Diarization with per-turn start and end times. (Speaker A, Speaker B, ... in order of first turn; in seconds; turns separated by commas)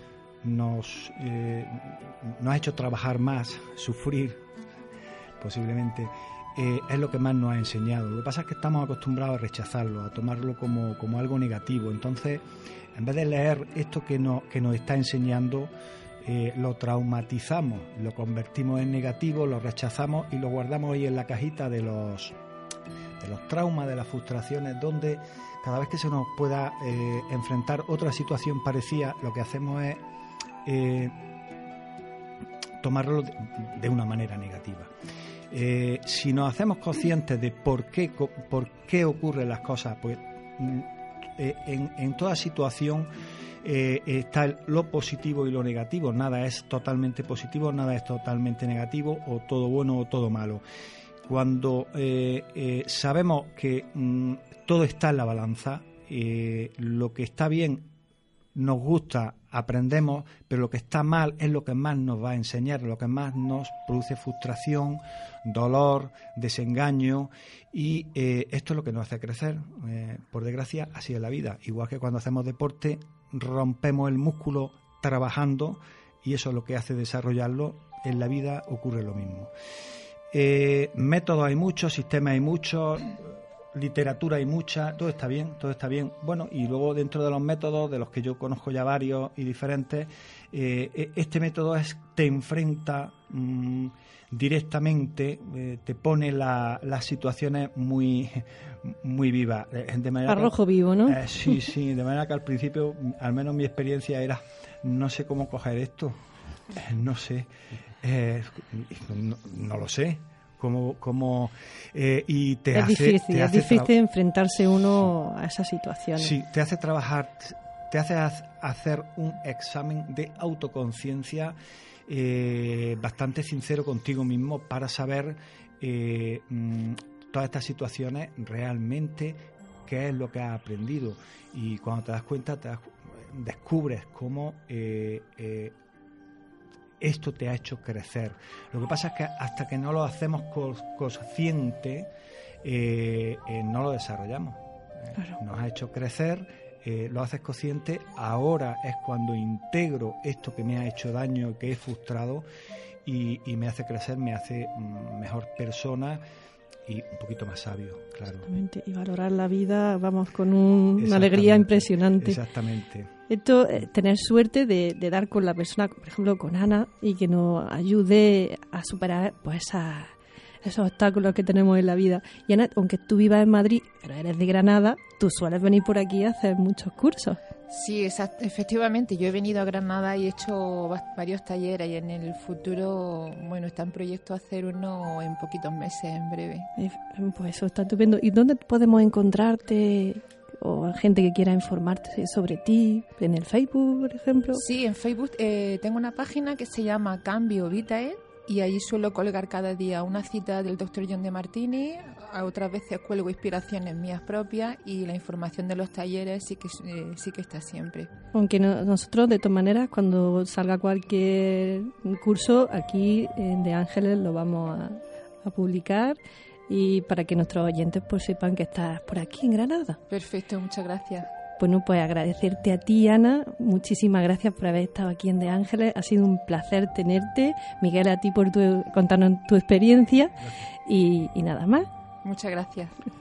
Speaker A: 0.4-4.4, Speaker A: 5.4-15.7, Speaker A: 16.2-22.4, Speaker A: 23.2-30.0, Speaker A: 30.6-31.1, Speaker A: 32.8-34.9, Speaker A: 35.5-40.9, Speaker A: 41.4-43.1, Speaker A: 43.6-50.6, Speaker A: 51.2-57.9, Speaker A: 58.5-79.5, Speaker A: 80.3-106.2, Speaker B: 100.3-101.2, Speaker A: 106.7-107.5, Speaker A: 108.0-113.9, Speaker B: 112.7-116.3, Speaker A: 116.2-121.5, Speaker A: 122.1-135.7, Speaker A: 137.0-142.1, Speaker A: 142.6-152.4, Speaker A: 153.0-156.2, Speaker A: 156.8-158.5, Speaker B: 158.4-162.4, Speaker A: 161.0-163.1, Speaker B: 163.3-177.4, Speaker C: 177.7-186.7, Speaker B: 186.8-194.6, Speaker C: 194.5-208.1, Speaker B: 208.3-220.0, Speaker C: 220.1-221.3, Speaker B: 221.6-230.3, Speaker B: 230.8-231.9, Speaker C: 232.2-232.9